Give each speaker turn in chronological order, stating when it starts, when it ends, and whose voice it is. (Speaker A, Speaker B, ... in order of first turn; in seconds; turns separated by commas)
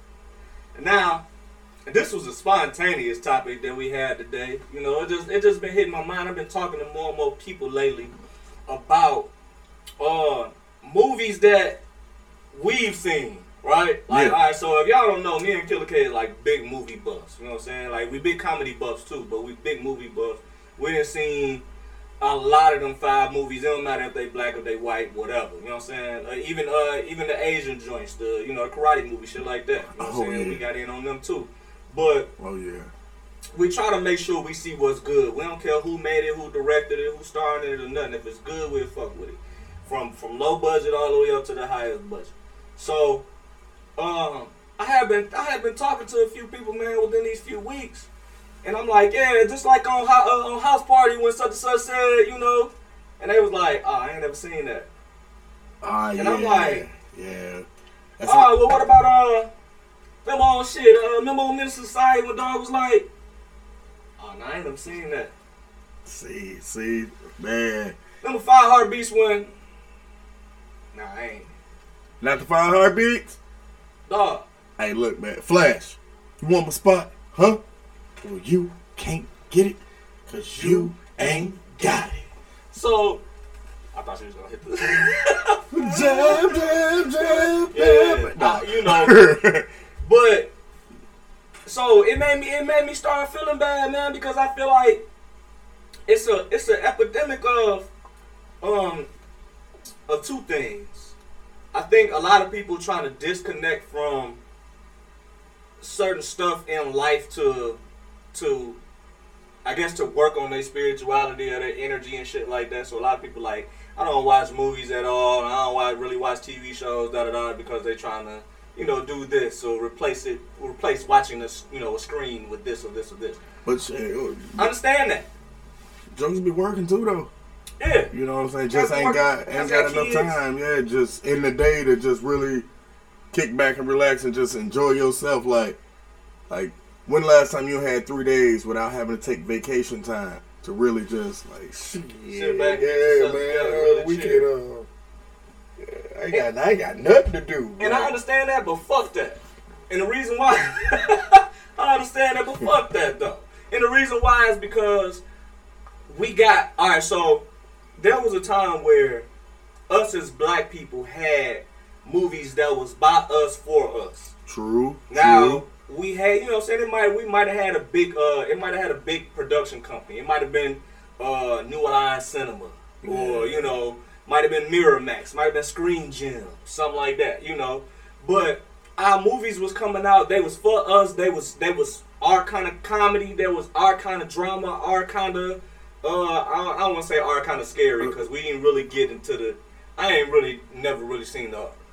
Speaker A: 0.7-1.2, Speaker A: 1.9-8.1, Speaker A: 8.7-9.3, Speaker A: 10.0-11.8, Speaker A: 12.5-21.6, Speaker B: 14.1-14.4, Speaker A: 22.2-32.3, Speaker B: 29.9-30.6, Speaker B: 32.4-32.9, Speaker A: 33.5-43.2, Speaker A: 44.0-48.1, Speaker A: 48.6-54.9, Speaker B: 55.8-57.6, Speaker A: 56.2-56.9, Speaker B: 58.2-58.7, Speaker A: 58.2-59.5, Speaker A: 60.2-63.1, Speaker A: 64.2-65.3, Speaker B: 66.0-68.0, Speaker A: 68.2-69.5, Speaker A: 70.9-71.5, Speaker B: 72.2-73.4, Speaker A: 74.1-74.5, Speaker B: 74.8-77.6, Speaker B: 78.2-82.2, Speaker A: 80.3-82.1, Speaker A: 82.7-83.2, Speaker A: 83.9-89.4, Speaker B: 85.7-89.7, Speaker A: 90.0-90.5, Speaker A: 91.7-95.0, Speaker A: 96.1-97.9, Speaker A: 98.6-99.1, Speaker A: 100.1-101.1, Speaker A: 101.7-104.4, Speaker A: 105.8-107.8, Speaker A: 108.3-108.8, Speaker A: 109.6-123.4, Speaker B: 123.6-124.7, Speaker A: 124.6-125.3, Speaker B: 126.1-127.3, Speaker A: 127.8-128.1, Speaker B: 128.1-132.7, Speaker A: 128.7-130.4, Speaker B: 133.3-135.8, Speaker B: 136.5-144.9, Speaker A: 142.3-144.5, Speaker B: 145.8-148.1, Speaker A: 147.8-155.2, Speaker A: 156.1-157.4, Speaker A: 158.0-159.2, Speaker A: 159.9-164.3, Speaker B: 164.5-165.6, Speaker A: 165.1-191.8, Speaker B: 173.0-173.7